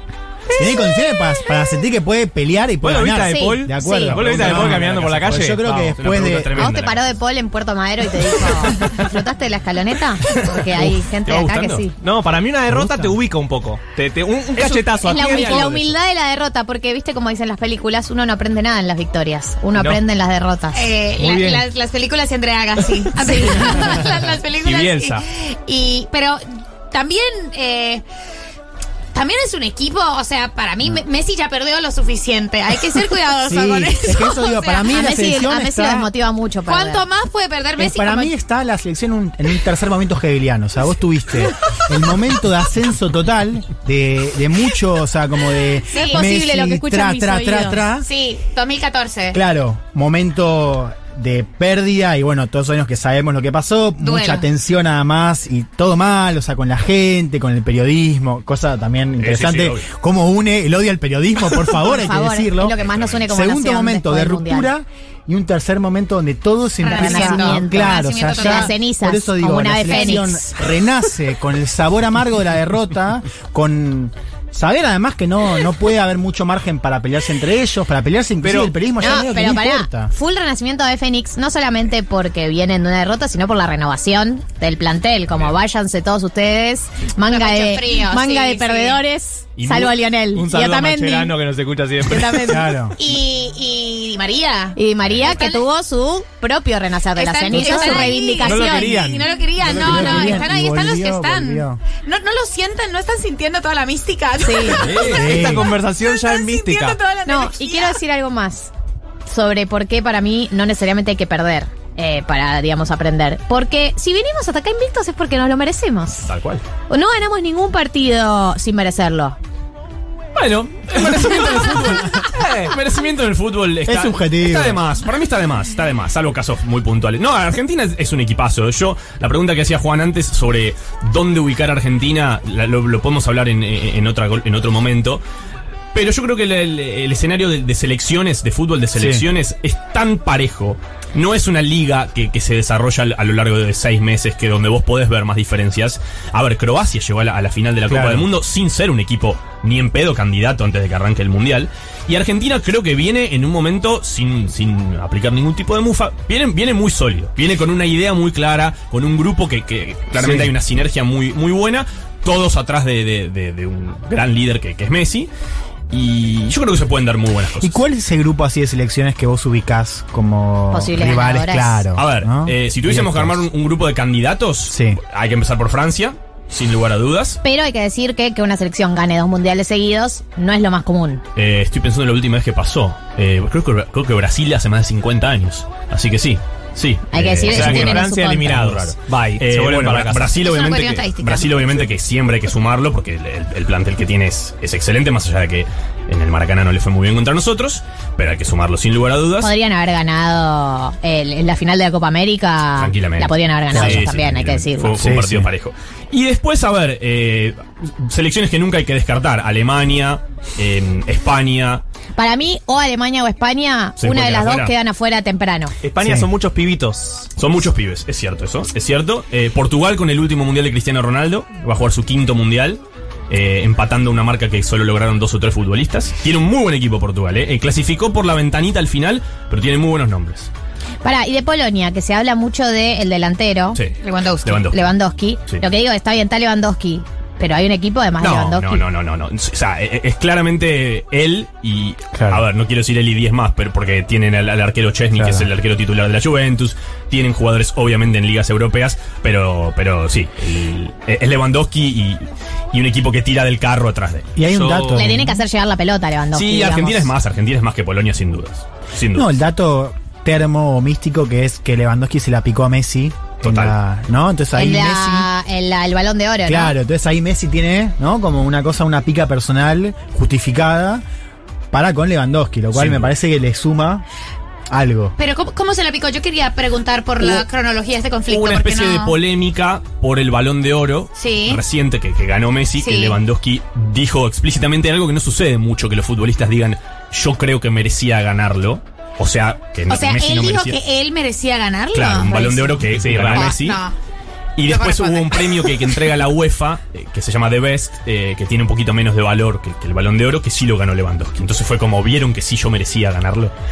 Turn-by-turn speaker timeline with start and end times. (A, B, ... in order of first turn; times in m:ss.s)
0:00.5-0:06.7 A
0:02.8-0:05.7 B
0:03.3-0:04.2 C
0:04.2-0:07.2 D
0:06.6-0:12.0 C
0:10.3-0:11.9 D
0:12.0-0:15.9 B
0:12.7-0:13.2 A
0:14.6-0:15.7 D
0:15.0-0:20.9 C
0:19.8-0:20.0 B
0:20.7-0:28.0 E
0:21.1-0:21.7 B
0:24.6-0:25.2 B
0:29.1-0:35.0 E
0:33.4-0:36.1 A
0:34.9-0:37.0 C
0:36.7-0:38.3 E
0:37.8-0:48.1 A
0:45.9-0:46.3 E
0:46.0-0:47.9 C
0:48.0-0:49.4 E
0:49.3-1:02.8 A
0:54.0-0:54.4 E
0:59.2-0:59.9 D
1:01.7-1:04.7 C
1:02.8-1:03.3 D
1:03.3-1:20.1 A
1:06.8-1:08.8 E
1:06.9-1:10.5 C
1:09.9-1:10.2 E
1:18.4-1:18.8 B
1:19.0-1:31.4 C
1:27.2-1:29.0 E
1:29.6-1:29.9 D
1:30.3-1:32.7 B
1:32.1-1:32.7 C
1:32.3-1:33.0 A
1:33.0-1:35.6 E
1:34.8-1:39.2 C
1:37.2-1:45.3 E
1:37.5-1:38.2 A
1:38.4-1:39.9 B
1:39.6-1:41.8 A
1:40.0-1:40.4 C
1:44.4-1:45.0 C
1:44.8-1:47.0 B
1:45.0-1:45.8 A
1:45.9-1:48.0 E
1:47.3-1:48.7 C
1:49.3-1:56.3 C
1:56.2-1:56.6 D
1:56.9-1:59.4 C
2:00.4-2:15.2 D
2:03.8-2:04.8 A
2:15.9-2:45.3 D
2:18.9-2:19.2 A
2:27.9-2:28.3 A
2:40.2-2:40.5 A
2:45.9-2:47.8 D
2:47.6-2:53.5 A
2:50.7-2:51.8 C
2:52.0-2:57.4 D
2:54.7-2:55.0 A
2:57.4-3:01.2 C
3:01.4-3:19.5 D
3:07.1-3:08.9 C
3:07.4-3:10.4 B
3:10.4-3:11.8 E
3:19.4-3:25.0 C
3:22.8-3:31.8 D
3:23.7-3:24.1 A
3:25.0-3:25.5 A
3:32.2-3:35.8 C
3:34.0-3:34.7 D
3:35.8-3:37.3 B
3:36.0-3:36.3 A
3:37.4-3:50.5 D
3:51.0-3:53.8 C
3:53.8-3:54.8 D
3:54.0-3:54.7 E
3:54.6-3:58.8 C
3:58.3-4:14.3 D
4:02.1-4:02.4 A
4:05.2-4:05.5 A
4:14.4-4:15.4 A
4:14.4-4:15.2 B
4:14.9-4:17.1 C
4:16.3-4:19.3 D
4:19.1-4:25.3 A
4:23.4-4:23.8 D
4:24.5-4:26.8 C
4:26.5-4:31.0 A
4:31.7-4:34.0 A
4:32.7-4:33.1 D
4:34.7-4:35.2 A
4:35.2-4:39.2 E
4:38.3-4:50.8 D
4:41.2-4:41.6 E
4:42.7-4:43.2 E
4:49.9-4:54.0 E
4:51.9-4:53.8 D
4:53.0-4:53.4 B
4:54.6-5:03.6 D
4:54.6-4:56.0 E